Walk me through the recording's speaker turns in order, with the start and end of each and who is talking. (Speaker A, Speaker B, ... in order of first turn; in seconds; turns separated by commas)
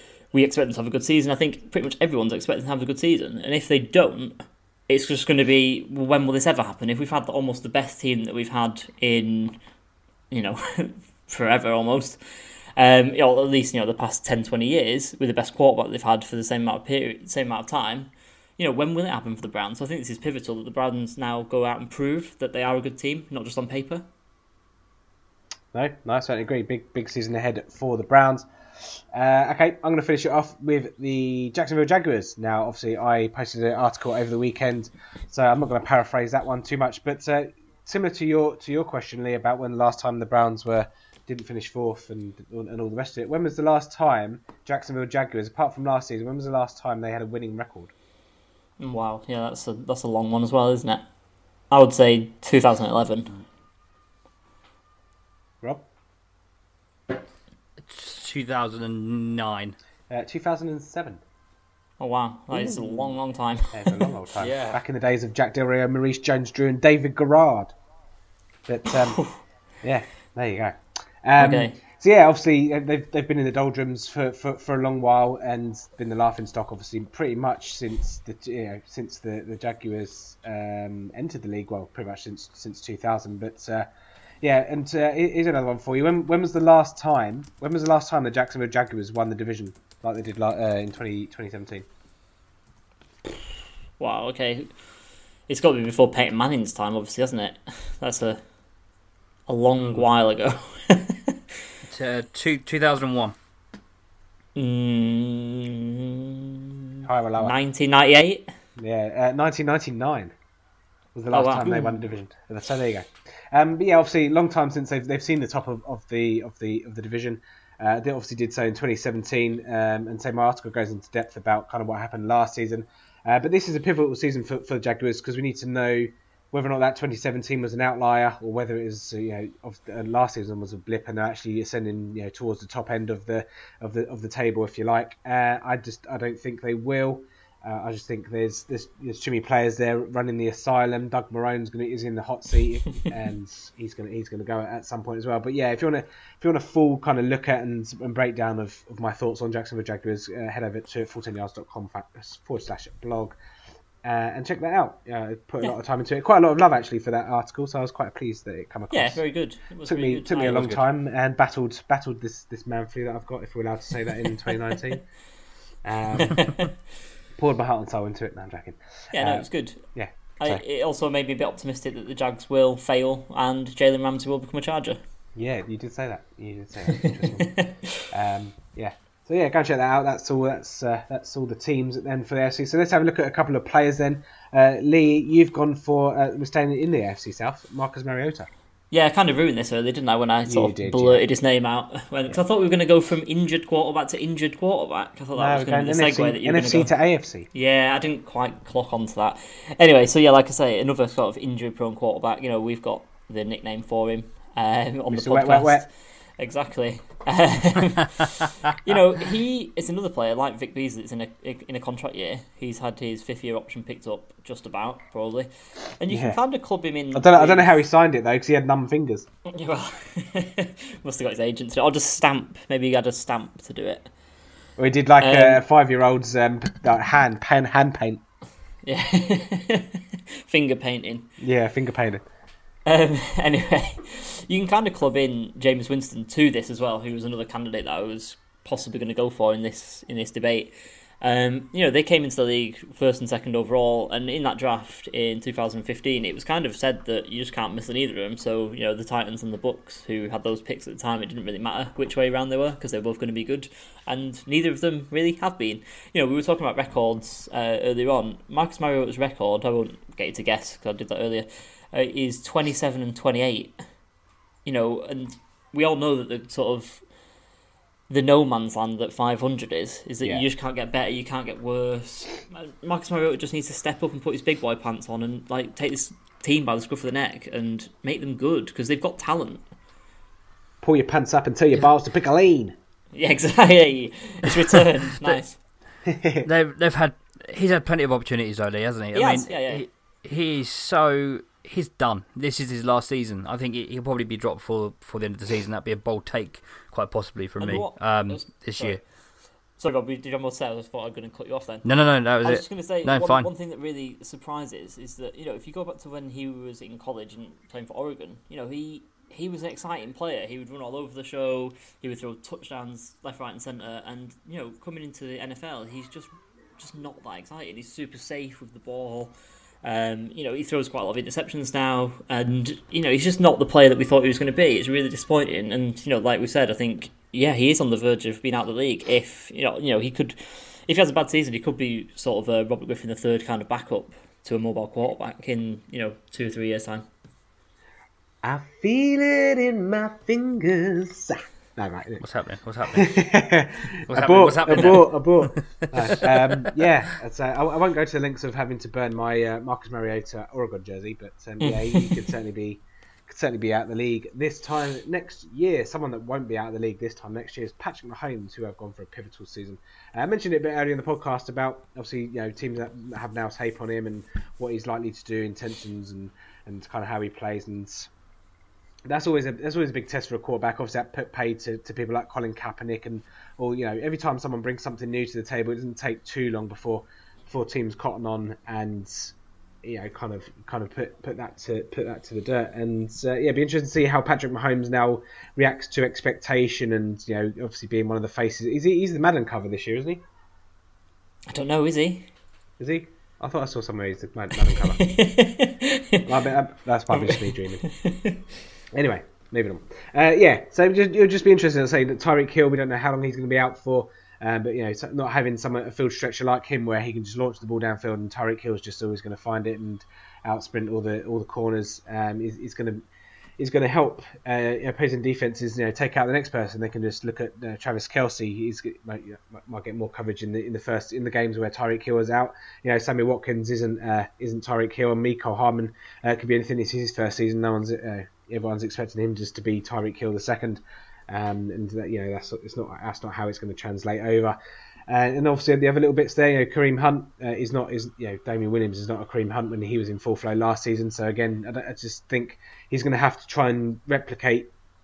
Speaker A: 0.3-9.6, Speaker A: 10.3-12.2, Speaker A: 12.8-24.1, Speaker B: 25.7-47.9, Speaker A: 48.8-51.1, Speaker A: 51.7-53.3, Speaker C: 57.8-59.8, Speaker B: 60.1-61.2, Speaker A: 62.0-64.1, Speaker B: 63.7-67.7, Speaker C: 64.4-64.8, Speaker B: 68.7-69.2, Speaker B: 69.8-83.9, Speaker A: 71.4-71.8, Speaker B: 84.4-91.9, Speaker A: 94.0-94.7, Speaker A: 95.5-98.4, Speaker A: 99.5-101.4, Speaker C: 101.9-103.3, Speaker A: 104.6-106.7, Speaker B: 107.1-107.5, Speaker A: 107.4-108.5, Speaker B: 108.8-110.3, Speaker B: 111.2-153.4, Speaker A: 111.3-112.0, Speaker B: 154.0-159.2, Speaker A: 158.9-160.9, Speaker B: 159.9-165.1, Speaker B: 165.8-166.5, Speaker A: 166.1-166.7, Speaker B: 167.4-170.6, Speaker A: 169.1-169.8, Speaker A: 170.4-175.0, Speaker B: 175.4-177.5, Speaker A: 177.4-177.7, Speaker B: 178.1-188.5, Speaker A: 188.9-196.9, Speaker B: 190.5-191.2, Speaker B: 195.3-197.5, Speaker A: 197.5-205.9, Speaker B: 205.1-205.9, Speaker A: 206.4-217.8, Speaker B: 216.1-216.4, Speaker B: 217.1-219.3, Speaker A: 219.5-224.1, Speaker B: 224.8-228.2, Speaker A: 225.2-225.6, Speaker A: 228.8-231.3, Speaker B: 231.4-232.2, Speaker A: 232.9-263.8, Speaker A: 264.7-267.0, Speaker A: 268.1-279.6, Speaker B: 280.8-282.8, Speaker A: 283.1-285.6, Speaker B: 286.1-286.5, Speaker C: 286.4-299.0, Speaker A: 289.1-289.9, Speaker A: 297.6-299.0, Speaker A: 299.8-301.9, Speaker C: 301.8-303.5, Speaker A: 302.4-337.1, Speaker B: 338.4-342.2, Speaker C: 342.2-343.2, Speaker B: 342.9-368.1, Speaker C: 344.1-346.7, Speaker A: 351.6-352.2, Speaker B: 369.1-390.2, Speaker A: 391.5-392.3, Speaker B: 392.8-395.0, Speaker A: 395.0-396.3, Speaker B: 396.3-397.8, Speaker A: 397.1-398.4, Speaker B: 398.9-413.0, Speaker B: 413.6-444.7